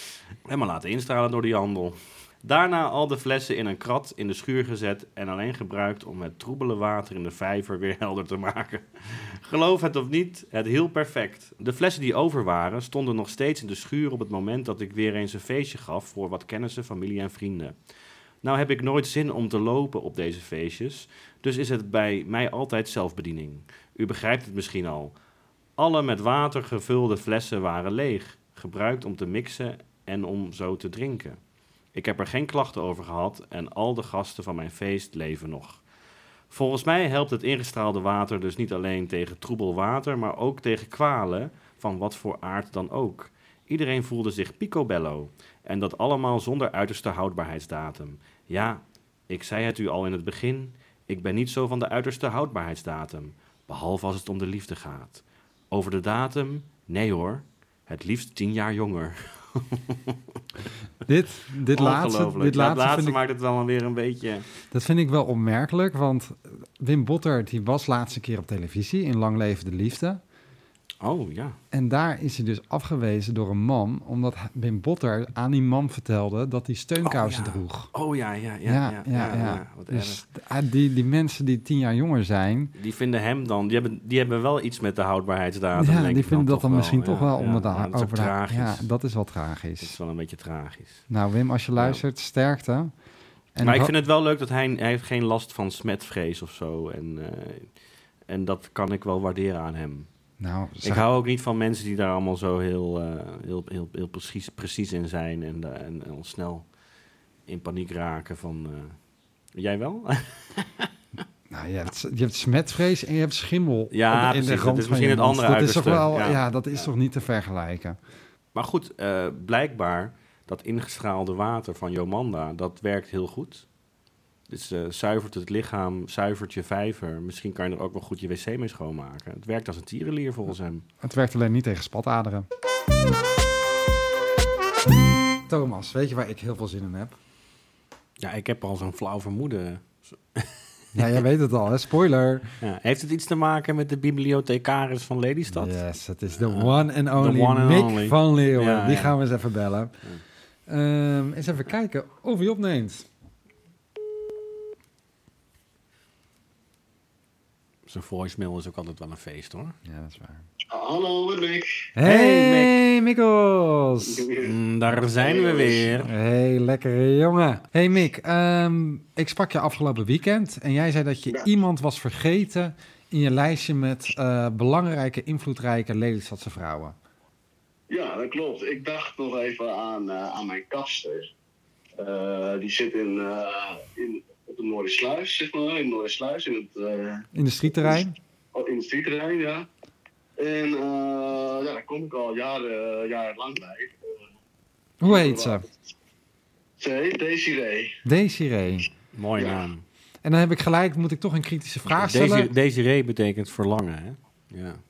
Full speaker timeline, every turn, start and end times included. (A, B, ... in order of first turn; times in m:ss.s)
0:00.5-0:17.7 A
0:18.4-0:25.1 A
0:25.8-0:31.4 A
0:31.9-0:35.8 A
0:36.5-1:00.2 A
1:01.0-1:03.2 B
1:01.7-1:04.5 A
1:04.7-1:10.2 B
1:11.0-1:11.6 A
1:11.7-1:17.9 B
1:17.0-1:20.2 A
1:18.6-1:22.7 B
1:22.7-1:28.8 A
1:25.8-1:30.0 B
1:29.8-1:31.0 A
1:31.1-1:32.9 B
1:33.5-1:33.9 B
1:33.6-1:37.7 A
1:38.3-1:40.1 A
1:40.4-1:41.0 B
1:40.8-1:46.7 A
1:47.5-1:49.0 A
1:49.5-1:50.9 A
1:51.5-1:58.0 B
1:53.9-1:56.4 A
1:58.5-2:03.6 A
2:04.5-2:10.8 A
2:11.0-2:12.5 B
2:15.5-2:17.2 B
2:18.2-2:21.1 A
2:20.9-2:22.5 B
2:22.6-2:25.8 A
2:25.5-2:30.0 B
2:26.4-2:29.1 A
2:30.7-2:33.1 B
2:37.9-2:39.8 A
2:39.8-2:40.4 B
2:40.7-2:41.9 C
2:42.0-2:44.3 B
2:42.0-2:42.8 A
2:44.0-2:44.5 C
2:44.4-2:46.1 A
2:45.2-2:45.9 C
2:46.0-2:57.0 B
2:57.9-3:01.3 C
3:02.0-3:08.0 C
3:07.3-3:08.2 B
3:08.5-3:09.7 C
3:10.4-3:14.2 C
3:15.0-3:15.6 B
3:15.0-3:15.8 C
3:16.8-3:18.0 C
3:18.0-3:18.9 B
3:19.1-3:19.8 A
3:19.4-3:19.6 C
3:20.2-3:22.5 B
3:21.9-3:24.8 A